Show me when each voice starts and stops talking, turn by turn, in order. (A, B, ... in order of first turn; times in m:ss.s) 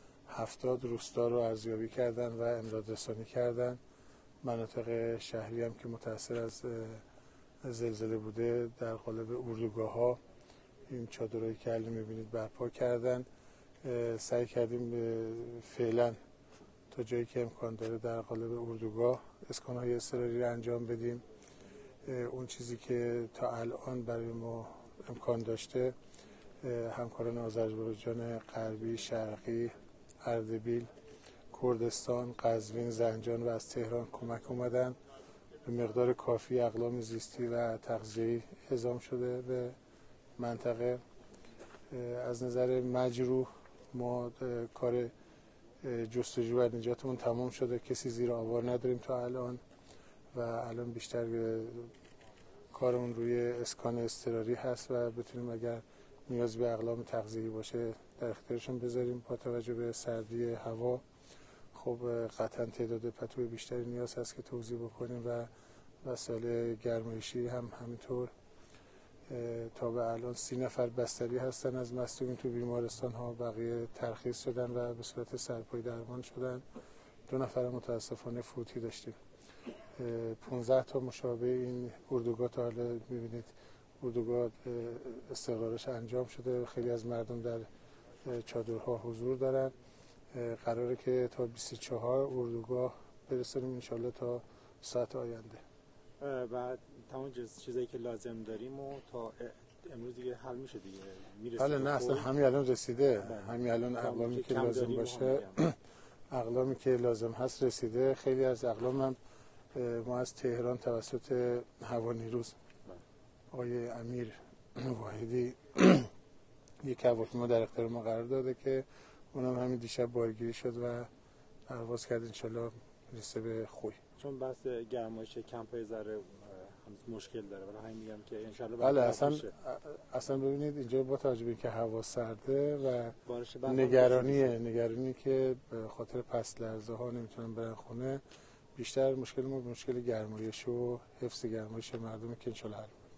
0:00.3-0:03.8 A
0:04.4-0:07.0 A
0:07.6-0:10.2 A
0:10.9-0:13.3 A
0:13.8-0:16.2 A
0:16.9-0:21.2 A
0:22.0-0:25.9 A
0:26.6-0:30.9 A
0:31.5-0:35.0 A
0:35.6-0:39.8 A
0:40.4-0:41.0 A
0:41.9-0:45.1 A
0:45.8-0:49.6 A
0:50.3-0:51.9 A
0:52.7-1:01.0 A
1:01.7-1:05.5 A
1:06.0-1:08.3 A
1:09.3-1:16.6 A
1:17.3-1:19.2 A
1:20.0-1:27.7 A
1:28.2-1:29.7 A
1:30.3-1:35.6 A
1:36.2-1:42.3 B
1:41.6-1:45.8 A
1:43.2-1:45.6 B
1:46.3-1:49.2 A
1:49.7-1:52.6 A
1:53.5-1:56.1 A
1:56.8-2:01.1 A
2:01.7-2:04.0 A
2:04.2-2:09.5 B
2:08.8-2:18.2 A
2:13.2-2:14.6 B
2:18.8-2:23.0 A